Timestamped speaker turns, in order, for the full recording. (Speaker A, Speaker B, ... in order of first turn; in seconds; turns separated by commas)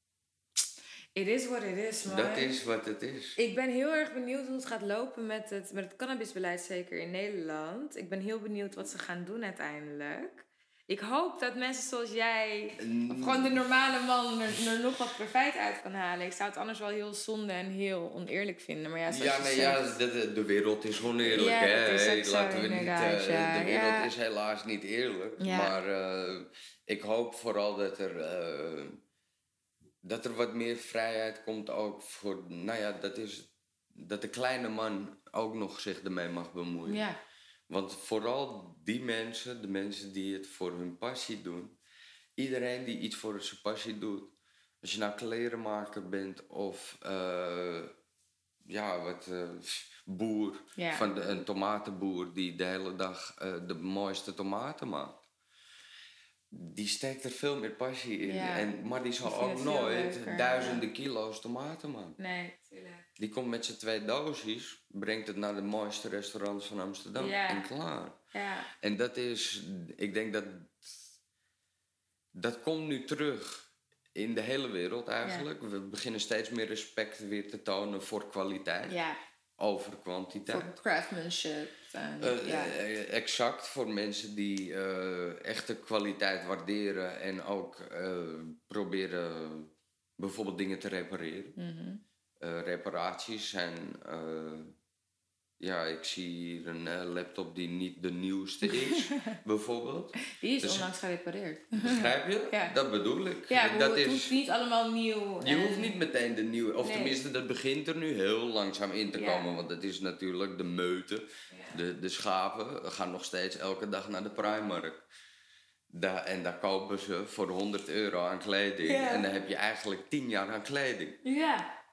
Speaker A: 1.1-2.5, Speaker B: 2.0-3.4, Speaker A: 3.4-19.9, Speaker B: 12.8-13.5, Speaker B: 19.1-29.0, Speaker A: 21.2-24.1, Speaker A: 25.4-25.7, Speaker B: 30.0-37.0, Speaker A: 36.9-37.2, Speaker B: 37.7-41.8, Speaker B: 42.4-47.9, Speaker B: 48.6-55.2, Speaker A: 50.8-51.1, Speaker B: 56.5-62.2, Speaker A: 58.2-58.7, Speaker A: 59.2-60.8, Speaker A: 62.2-63.0, Speaker B: 63.2-68.2, Speaker A: 67.2-67.7, Speaker A: 68.3-68.7, Speaker B: 68.8-70.9, Speaker B: 72.3-79.0, Speaker A: 78.9-79.2, Speaker B: 79.6-80.7, Speaker A: 80.5-82.7, Speaker B: 82.2-91.5, Speaker A: 91.5-92.0, Speaker B: 92.4-94.7, Speaker B: 95.6-100.9, Speaker A: 98.6-99.4, Speaker A: 100.3-102.7, Speaker B: 101.7-104.3, Speaker A: 103.5-106.0, Speaker B: 105.4-115.0, Speaker A: 106.8-107.2, Speaker A: 109.1-109.5, Speaker B: 115.9-121.2, Speaker A: 118.8-119.3, Speaker A: 121.2-121.7